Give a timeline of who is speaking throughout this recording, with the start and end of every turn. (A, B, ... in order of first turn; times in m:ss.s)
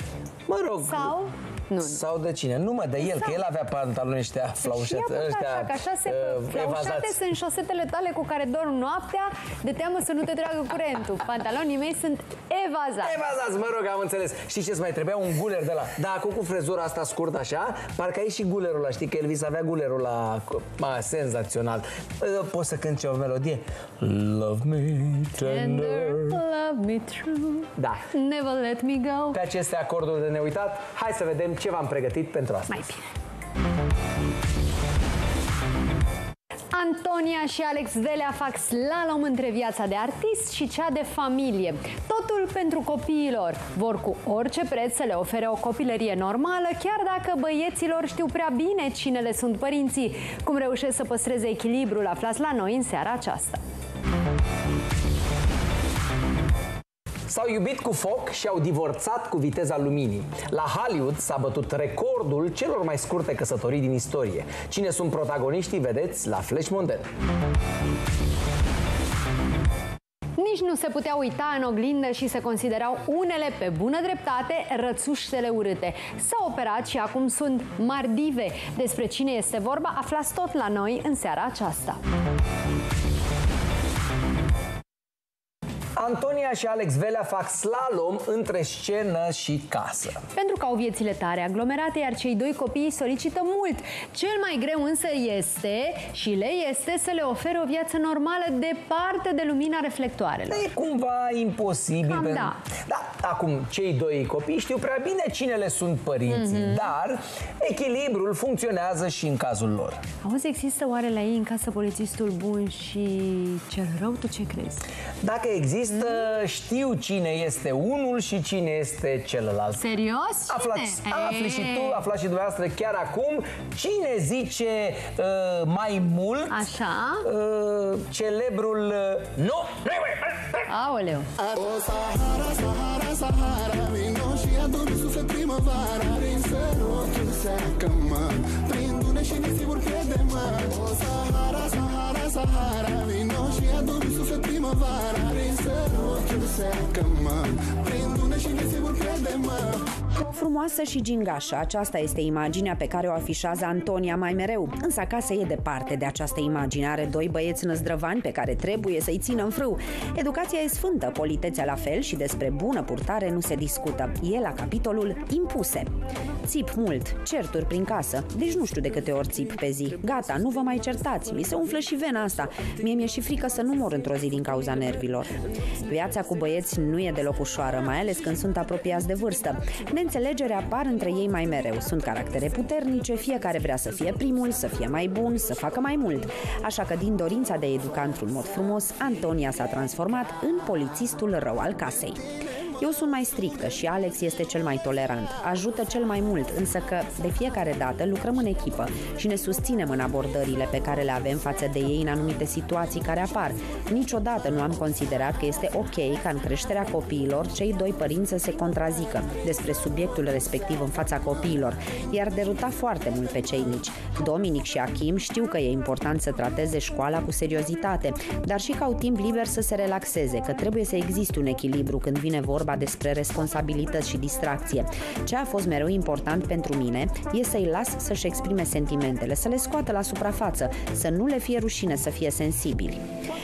0:00.5-0:01.2 A
0:00.8-0:02.0 B
0:01.8-0:07.2 A
0:03.0-0:03.4 B
0:04.6-0:13.2 B
0:13.0-0:26.4 A
0:25.4-0:29.4 B
0:29.3-0:32.8 A
0:32.7-0:33.0 B
0:36.7-0:53.6 B
0:57.3-1:07.1 A
1:10.4-1:22.0 B
1:26.0-1:30.2 A
1:30.3-1:40.6 B
1:40.5-1:50.0 A
1:42.1-1:42.6 B
1:46.3-1:46.9 B
1:50.2-1:54.8 B
1:55.2-1:59.8 A
1:59.8-2:02.0 B
2:00.5-2:06.7 A
2:06.5-2:07.3 B
2:07.2-2:10.6 A
2:10.7-2:11.3 B
2:11.4-2:29.8 C
2:30.3-2:45.9 D
2:46.4-3:53.1 D